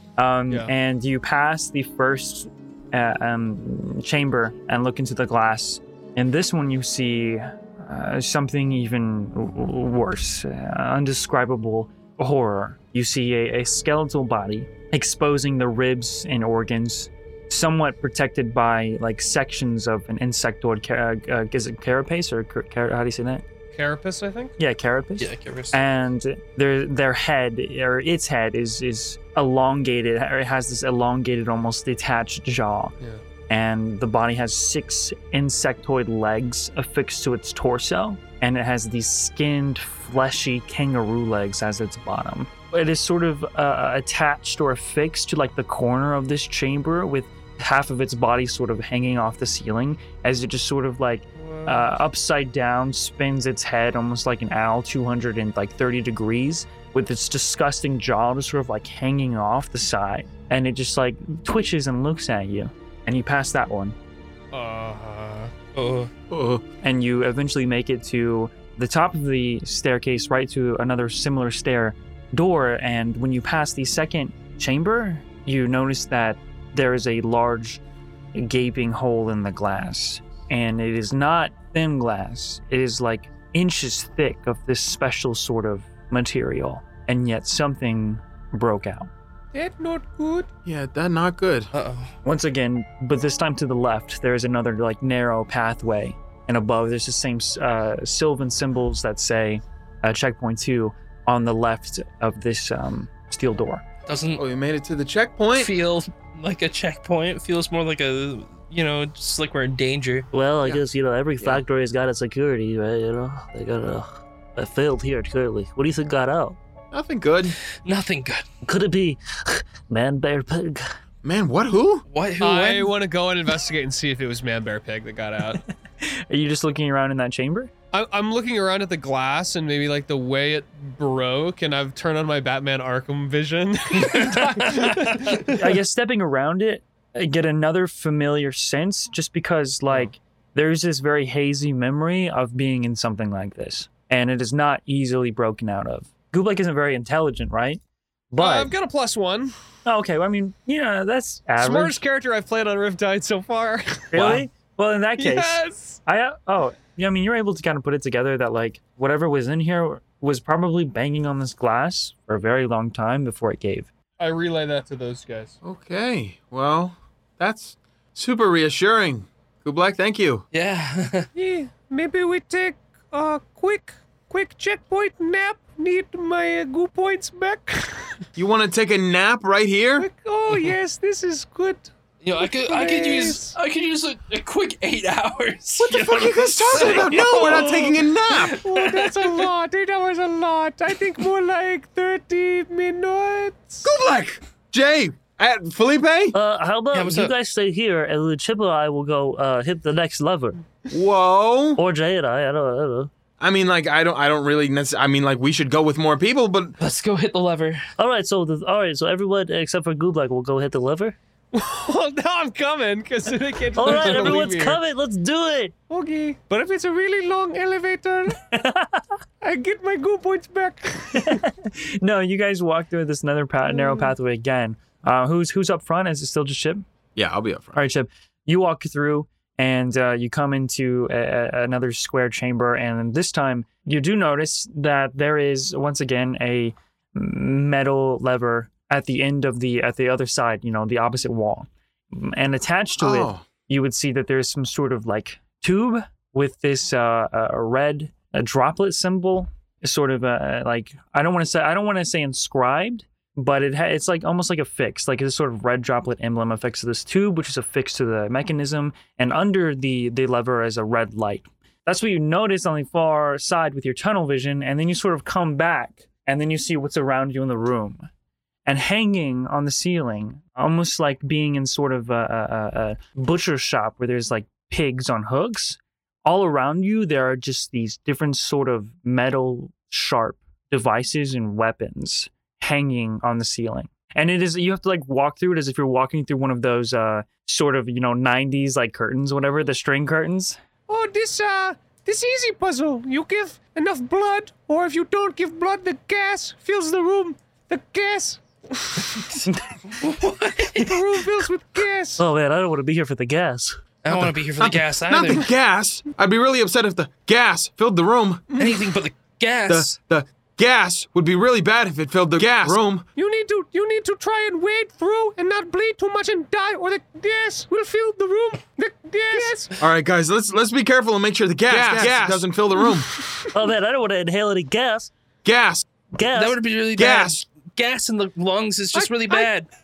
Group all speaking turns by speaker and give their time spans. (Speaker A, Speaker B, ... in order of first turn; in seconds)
Speaker A: 0.2-23.4, 24.6-32.9, 33.5-64.0, 66.8-77.8, 78.3-89.1, 92.2-103.8, 126.0-127.7, 135.4-148.7, 149.8-152.0, 154.1-163.9, 218.3-219.0, 221.1-226.8, 227.7-268.1, 268.6-290.6, 299.5-299.7
Speaker B: 23.7-24.5, 51.4-51.9, 64.5-65.5, 89.5-90.5, 122.4-125.6, 127.9-135.8, 148.4-149.5, 151.6-154.4, 155.2-156.0, 164.2-165.5, 171.3-178.2, 180.0-181.9, 182.4-183.6, 185.9-193.9, 211.5-214.8, 215.9-218.4, 219.4-221.4, 223.7-224.1, 290.9-299.2, 300.7-302.2, 308.5-308.9, 313.1-319.7, 321.7-323.5, 328.9-329.5
Speaker C: 25.2-25.8, 65.5-66.1, 91.7-92.1, 104.0-104.4, 105.5-110.3, 117.8-118.4, 122.1-122.9, 133.9-135.2, 170.5-171.3, 182.2-189.5, 196.9-197.3, 206.8-207.8, 213.8-214.4, 299.9-301.0, 304.0-305.5, 308.6-310.0, 321.7-322.1, 326.2-329.7
Speaker D: 66.3-66.6, 90.6-91.7, 104.3-105.7, 116.9-117.5, 121.2-122.0, 165.6-170.4, 178.3-180.1, 185.9-188.6, 193.8-196.3, 200.9-201.8, 203.4-206.8, 227.2-227.8, 242.9-243.5, 304.1-308.4, 309.7-313.0, 319.8-323.2, 325.4-325.9, 326.9-327.4
Speaker E: 110.3-116.6, 118.6-120.8, 196.3-200.6, 201.8-203.1, 208.0-211.2, 213.8-215.7, 302.2-303.8, 323.5-325.1, 326.1-326.6